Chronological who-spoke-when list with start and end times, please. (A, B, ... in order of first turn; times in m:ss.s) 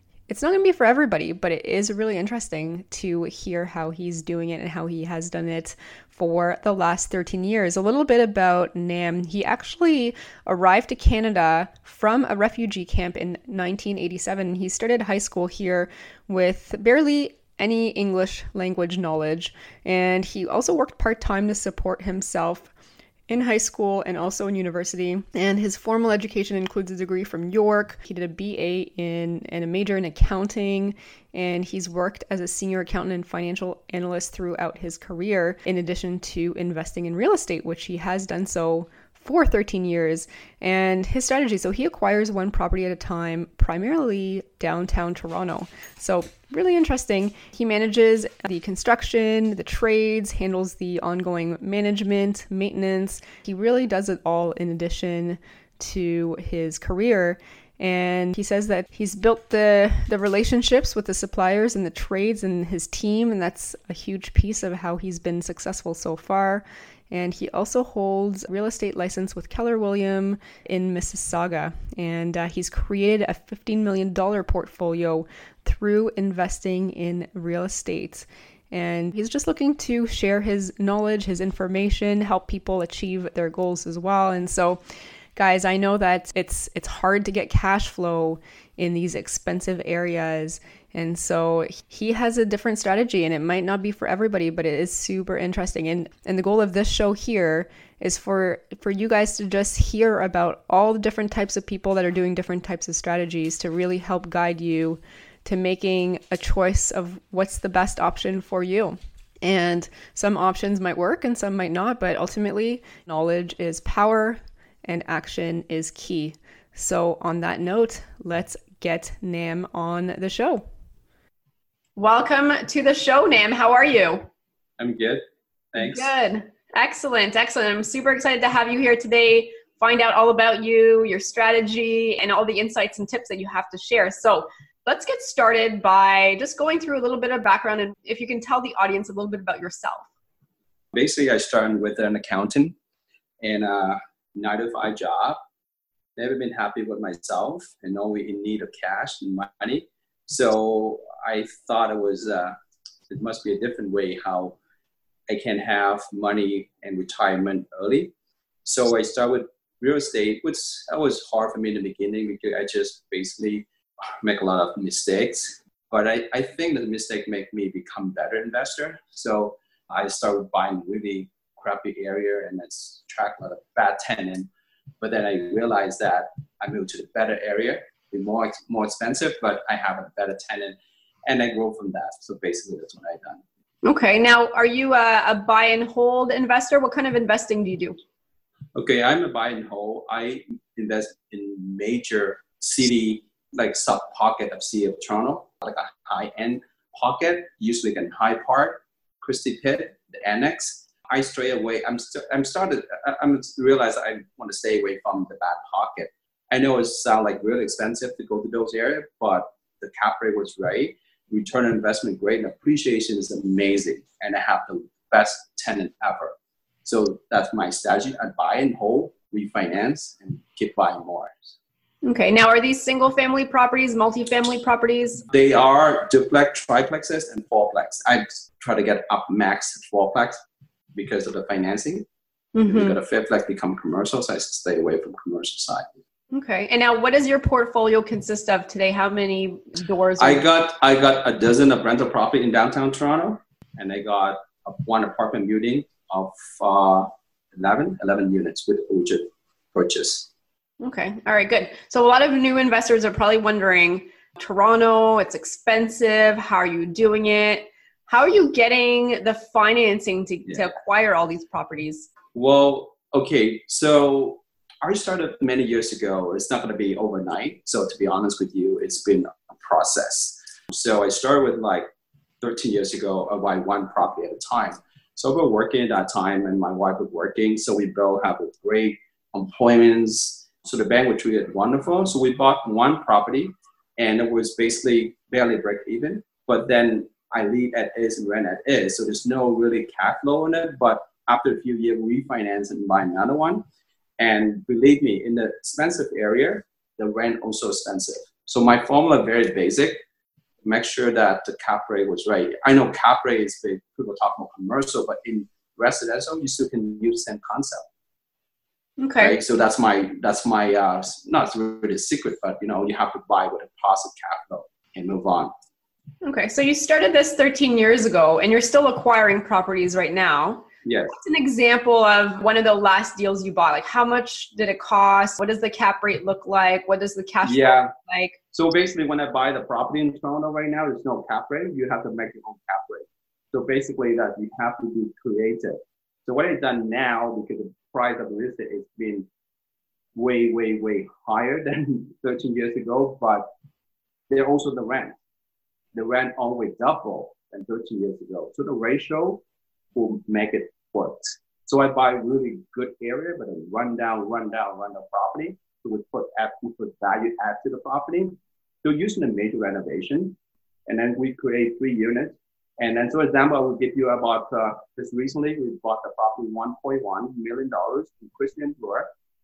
0:00.3-0:22.7 A
0:23.3-1:24.8 A
1:25.4-2:00.6 A
2:02.0-2:04.2 B
2:04.8-2:06.1 C
2:05.8-2:20.1 B
2:20.9-2:22.7 C
2:23.4-2:25.4 C
2:26.2-2:32.5 C
2:33.1-2:34.6 C
2:35.3-2:38.1 C
2:38.6-2:43.7 C
2:44.2-2:54.5 C
2:55.0-3:03.4 C
3:03.8-3:08.0 B
3:08.7-3:36.3 C
3:36.8-3:41.6 C
3:42.0-3:45.2 B
3:45.3-3:50.4 C
3:50.9-3:52.0 C
3:52.5-3:53.0 B
3:52.6-3:56.0 C
3:56.3-4:00.4 B
4:00.2-4:10.3 C
4:10.8-4:22.1 B
4:22.3-4:31.9 C
4:32.4-4:53.6 C
4:54.2-5:00.0 C
5:00.6-5:07.9 C
5:09.0-5:09.4 B
5:09.2-5:15.5 C
5:16.2-5:28.4 B
5:20.8-5:21.1 C
5:27.4-5:27.9 C
5:28.5-5:39.3 C
5:40.1-5:43.5 C
5:44.3-5:45.1 C
5:45.9-5:49.4 C
5:49.9-6:00.4 C
6:00.9-6:09.1 C